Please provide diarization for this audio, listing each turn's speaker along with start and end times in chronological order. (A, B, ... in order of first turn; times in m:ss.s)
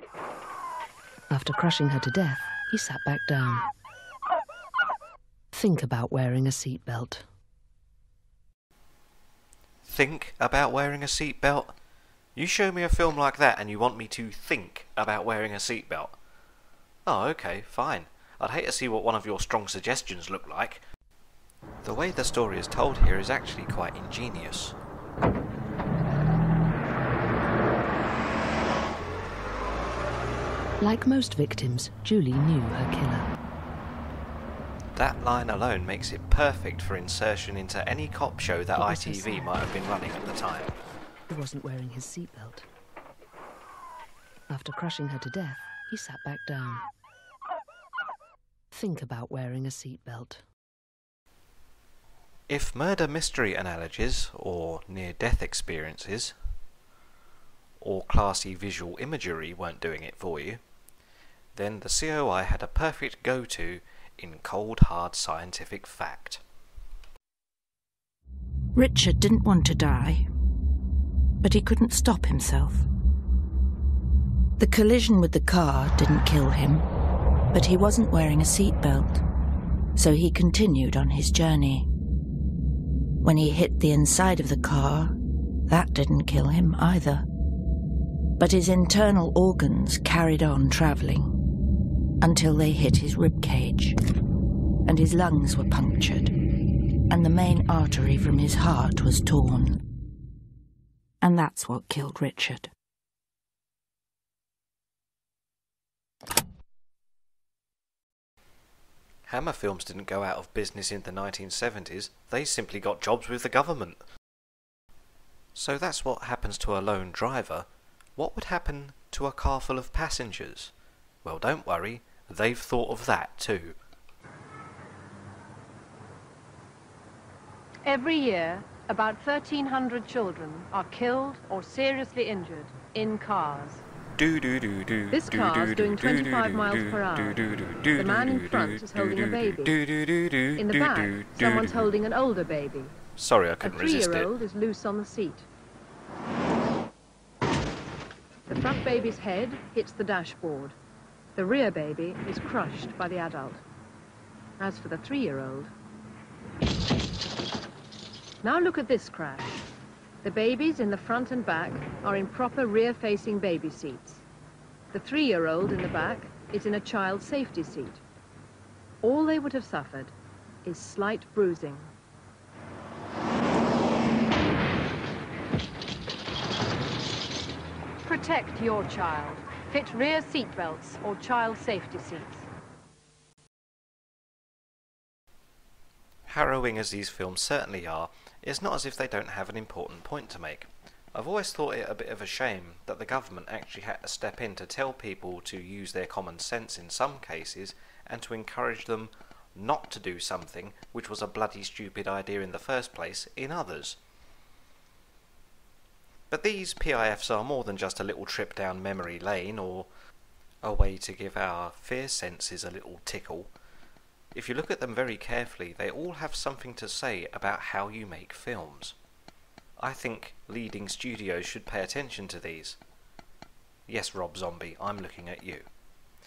0:01.3-0:03.7 A
0:05.5-0:07.2 A
0:09.9-0:11.7 B
0:12.4-0:16.2 B
0:17.0-0:20.8 B
0:21.8-0:24.8 B
0:30.8-0:33.3 A
0:34.9-0:40.7 B
0:38.8-0:39.6 A
0:41.3-0:42.6 A
0:44.5-0:46.8 A
0:48.7-0:50.4 A
0:52.5-0:56.3 B
0:57.8-1:00.6 B
1:01.5-1:06.4 B
1:08.7-1:10.2 C
1:11.4-1:12.9 C
1:14.6-1:16.8 C
1:17.5-1:19.2 C
1:20.0-1:21.9 C
1:23.2-1:27.3 C
1:28.4-1:31.4 C
1:32.2-1:34.0 C
1:34.8-1:39.8 C
1:41.2-1:42.7 C
1:49.3-1:54.0 B
1:55.5-2:00.7 B
2:01.2-2:03.8 B
2:07.8-2:13.8 D
2:14.2-2:21.9 B
2:15.1-2:17.4 D
2:18.0-2:19.7 D
2:20.6-2:23.0 D
2:23.2-2:24.4 B
2:23.6-2:25.4 D
2:28.5-2:30.8 D
2:31.4-2:33.6 D
2:34.6-2:35.7 D
2:38.4-2:39.6 D
2:40.2-2:44.2 D
2:44.9-2:48.0 D
2:49.0-2:50.1 D
2:50.6-2:51.9 D
2:58.0-3:02.4 D
3:06.3-3:24.0 B
3:26.3-3:29.9 B
3:30.6-3:33.5 B
3:34.3-3:39.0 B
3:39.8-3:42.8 B
3:43.9-3:45.7 B